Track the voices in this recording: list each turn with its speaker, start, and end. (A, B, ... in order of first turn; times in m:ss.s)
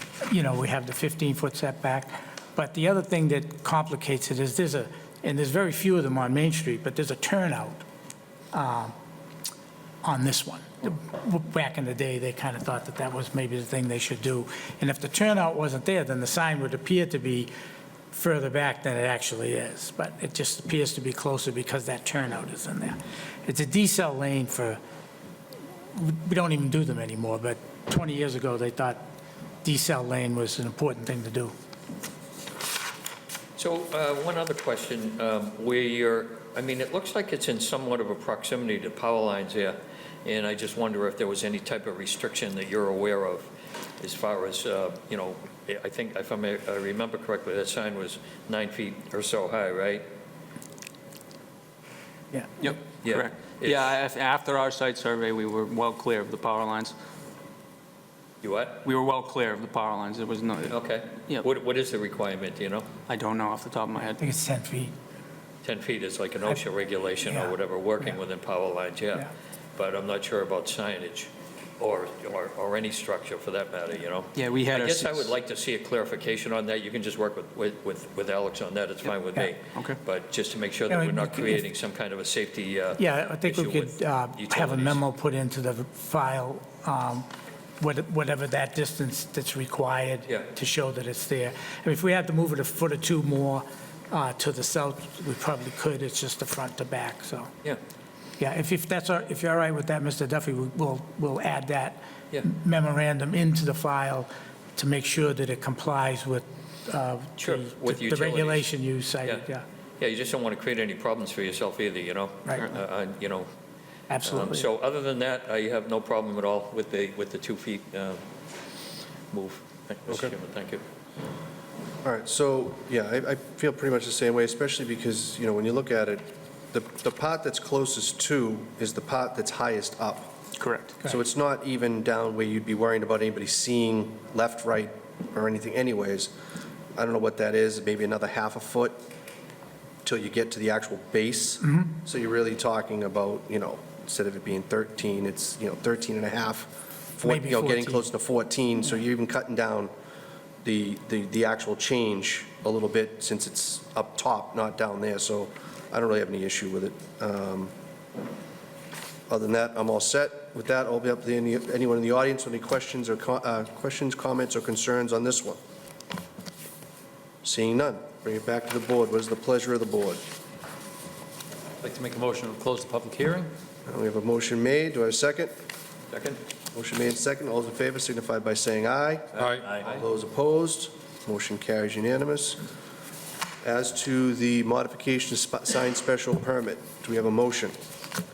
0:00.2-0:07.8 A
0:08.5-0:08.9 A
0:10.0-0:17.5 A
0:18.1-0:24.8 A
0:25.9-0:29.0 A
0:29.6-0:31.5 A
0:33.6-0:43.5 B
0:44.0-0:50.0 B
0:52.6-0:57.0 C
0:53.0-0:53.9 B
0:58.4-0:58.8 B
0:58.8-1:01.5 C
1:00.7-1:02.9 B
1:03.1-1:04.2 C
1:04.2-1:04.9 A
1:05.6-1:25.0 B
1:07.3-1:07.6 A
1:14.4-1:15.3 C
1:20.9-1:21.6 A
1:23.0-1:27.3 A
1:27.8-1:37.5 A
1:38.4-1:49.6 A
1:47.4-1:48.7 B
1:50.0-1:53.5 B
1:54.1-1:54.7 A
1:54.2-1:58.2 B
1:59.3-2:00.8 B
2:02.0-2:10.4 D
2:10.6-2:11.0 C
2:11.0-2:16.3 D
2:17.0-2:19.0 D
2:20.0-2:29.9 D
2:27.2-2:28.0 A
2:30.6-2:37.7 D
2:39.3-2:45.6 D
2:47.4-2:50.2 D
2:51.8-2:53.5 E
2:53.9-2:55.5 D
2:56.1-2:56.4 B
2:56.7-3:02.6 D
2:59.4-2:59.8 E
3:03.6-3:07.8 D